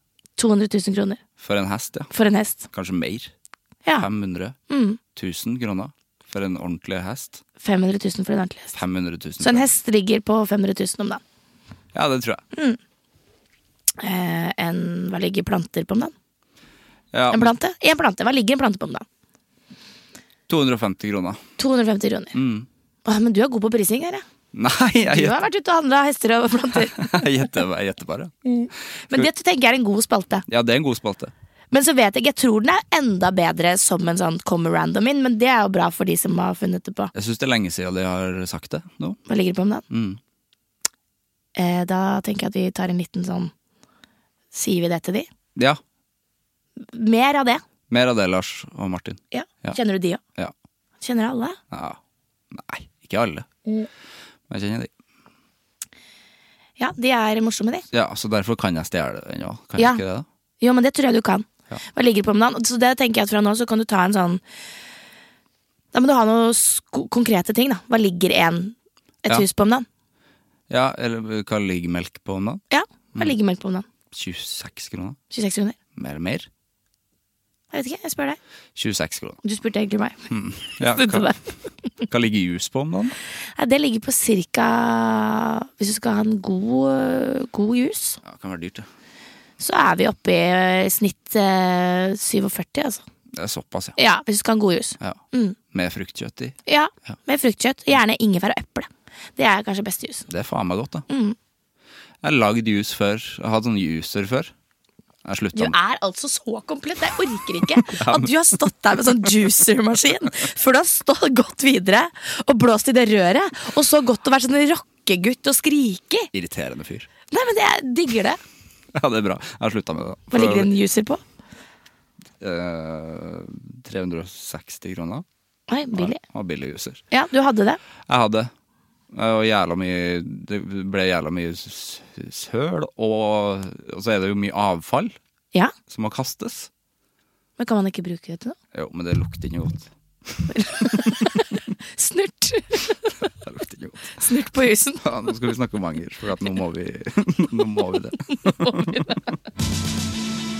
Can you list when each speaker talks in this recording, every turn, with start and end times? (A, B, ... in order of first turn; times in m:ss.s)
0:00.4-0:01.2 A
0:01.4-0:02.1 B
0:02.1-0:02.7 A
0:02.7-0:03.3 B
0:04.0-0:04.6 B
0:04.7-0:05.0 A
0:05.1-0:07.4 B
0:07.6-0:08.8 A
0:08.7-0:09.7 B
0:09.4-0:11.2 A
0:11.9-0:12.4 B
0:12.5-0:12.8 A
0:14.0-0:16.1 A
0:17.1-0:17.5 B
0:17.3-0:19.0 A
0:20.5-0:21.4 B
0:21.6-0:22.4 A
0:22.3-0:22.7 B
0:23.0-0:24.2 A
0:24.5-0:25.4 B
0:25.1-0:27.2 A
0:26.7-0:28.3 B
0:28.4-0:30.4 A
0:28.9-0:29.3 B
0:30.5-0:31.3 B
0:31.7-0:37.1 A
0:37.1-0:39.2 B
0:39.3-0:39.8 A
0:39.9-0:40.2 B
0:41.6-0:43.5 A
0:44.5-0:45.3 A
0:46.8-0:47.6 A
0:47.9-0:49.8 B
0:49.3-0:50.2 A
0:51.0-0:51.6 A
0:51.7-0:52.0 B
0:52.5-0:53.5 B
0:54.5-0:54.9 B
0:56.8-0:57.8 A
0:57.9-1:00.2 B
0:59.8-1:00.0 A
1:00.6-1:04.4 A
1:05.9-1:09.8 A
1:10.7-1:12.6 B
1:12.7-1:13.9 A
1:14.1-1:15.2 B
1:15.3-1:15.8 A
1:15.9-1:16.5 B
1:17.7-1:18.4 A
1:18.8-1:19.4 B
1:19.4-1:20.3 A
1:20.3-1:21.3 B
1:20.8-1:21.5 A
1:22.1-1:23.1 B
1:23.6-1:28.2 A
1:28.2-1:28.9 B
1:29.6-1:33.0 A
1:33.3-1:34.0 B
1:34.0-1:35.6 A
1:35.0-1:36.6 B
1:36.7-1:40.3 A
1:40.3-1:41.0 B
1:41.1-1:41.4 A
1:42.2-1:44.5 B
1:45.2-1:45.8 B
1:45.5-1:56.3 A
1:47.9-1:48.3 B
1:56.3-1:57.1 B
1:57.3-1:58.4 A
1:58.9-2:00.7 B
2:00.3-2:01.2 A
2:02.4-2:05.2 B
2:05.7-2:06.2 A
2:05.9-2:07.0 B
2:07.1-2:07.8 A
2:08.1-2:08.5 B
2:09.1-2:15.2 B
2:15.9-2:16.7 B
2:17.6-2:18.6 A
2:18.7-2:19.9 B
2:20.4-2:21.1 B
2:20.5-2:21.4 A
2:22.0-2:23.1 A
2:23.4-2:24.2 B
2:24.2-2:25.0 A
2:25.0-2:28.8 B
2:28.4-2:29.2 A